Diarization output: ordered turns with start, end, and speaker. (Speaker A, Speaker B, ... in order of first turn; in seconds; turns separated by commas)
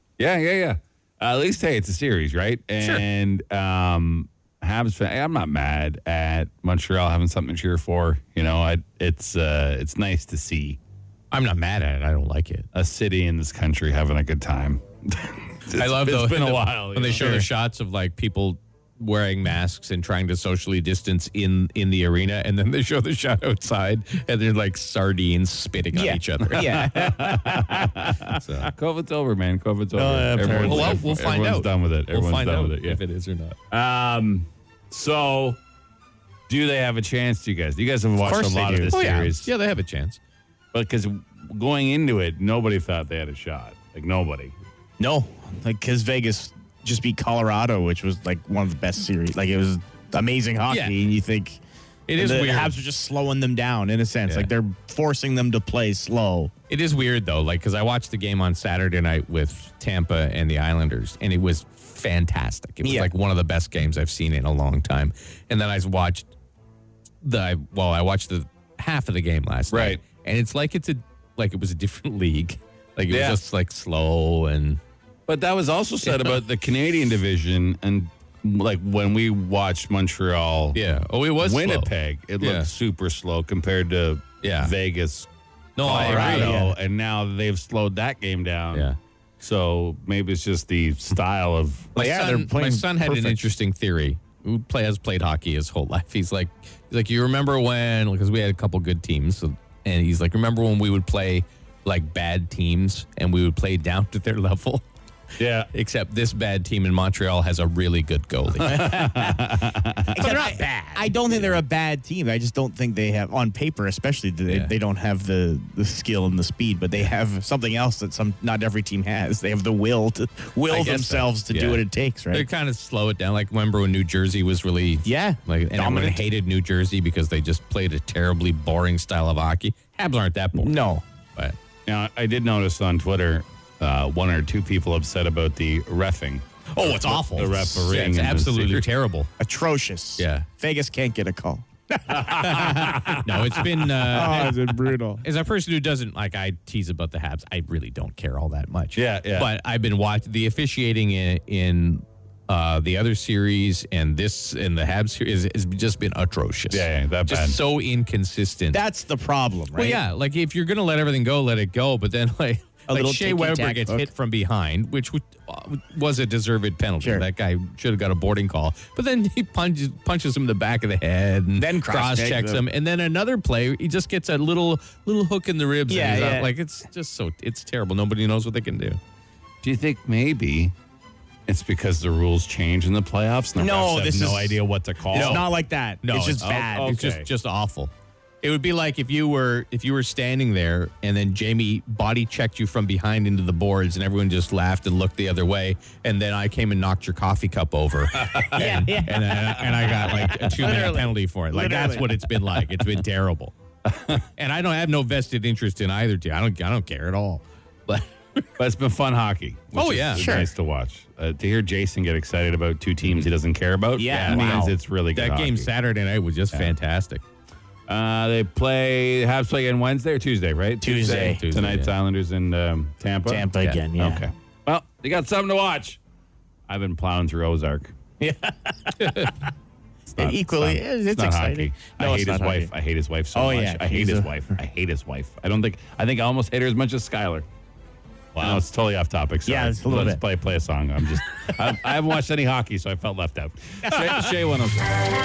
Speaker A: 0.2-10.8, Speaker B: 11.3-12.7, Speaker A: 12.7-17.5, Speaker B: 15.7-26.9, Speaker C: 17.2-17.4, Speaker C: 25.9-27.6, Speaker A: 26.4-33.0, Speaker B: 28.3-28.7, Speaker B: 30.0-33.6, Speaker C: 30.0-31.0, Speaker A: 33.7-35.6, Speaker A: 36.5-39.5, Speaker C: 38.2-38.9, Speaker B: 38.9-40.2, Speaker A: 40.7-44.5, Speaker C: 45.0-51.6, Speaker B: 50.7-51.0, Speaker B: 52.1-52.8, Speaker C: 52.2-56.5, Speaker B: 54.3-54.5, Speaker B: 56.7-66.3, Speaker C: 62.8-63.1, Speaker B: 67.2-74.8, Speaker A: 69.7-70.0, Speaker A: 73.1-73.4, Speaker A: 75.3-80.8, Speaker B: 76.0-76.4, Speaker B: 80.8-82.7, Speaker A: 81.4-88.9, Speaker B: 84.4-84.7, Speaker B: 85.8-86.6, Speaker C: 85.9-86.8, Speaker A: 89.4-91.9, Speaker C: 91.9-93.4, Speaker B: 92.0-104.8, Speaker A: 105.4-105.7, Speaker B: 105.7-109.3, Speaker A: 108.6-110.5, Speaker B: 110.2-111.6, Speaker C: 110.2-122.5, Speaker B: 114.5-114.7, Speaker B: 120.7-130.8, Speaker C: 125.0-126.2, Speaker C: 130.5-131.0, Speaker A: 131.9-138.9, Speaker C: 136.8-137.9, Speaker B: 136.8-139.3, Speaker C: 139.4-143.1, Speaker B: 140.2-140.5, Speaker A: 142.1-143.6, Speaker B: 142.4-158.8, Speaker C: 143.9-145.2, Speaker A: 148.9-149.5, Speaker A: 156.7-157.6, Speaker C: 158.7-160.0, Speaker B: 159.7-179.0, Speaker C: 162.9-164.1, Speaker C: 167.0-167.3, Speaker C: 171.6-172.7, Speaker C: 175.9-176.5, Speaker A: 179.6-180.7, Speaker A: 181.5-185.5, Speaker C: 183.6-187.0, Speaker B: 185.1-185.5, Speaker B: 186.0-203.5, Speaker A: 186.4-187.3, Speaker A: 198.2-198.6, Speaker C: 198.6-202.6, Speaker A: 203.9-204.2, Speaker B: 204.4-208.4, Speaker A: 208.6-215.7, Speaker B: 209.8-210.3, Speaker C: 210.2-210.5, Speaker C: 214.0-214.7, Speaker B: 214.1-214.5, Speaker B: 215.2-217.2, Speaker A: 217.9-223.4, Speaker C: 220.8-221.4, Speaker B: 221.0-221.9, Speaker C: 223.3-224.2, Speaker A: 224.0-226.0, Speaker A: 226.7-227.9, Speaker C: 228.2-229.3, Speaker B: 229.0-229.3, Speaker A: 230.1-237.5, Speaker C: 230.2-232.7, Speaker C: 233.3-234.3, Speaker A: 238.4-245.0, Speaker C: 239.5-240.2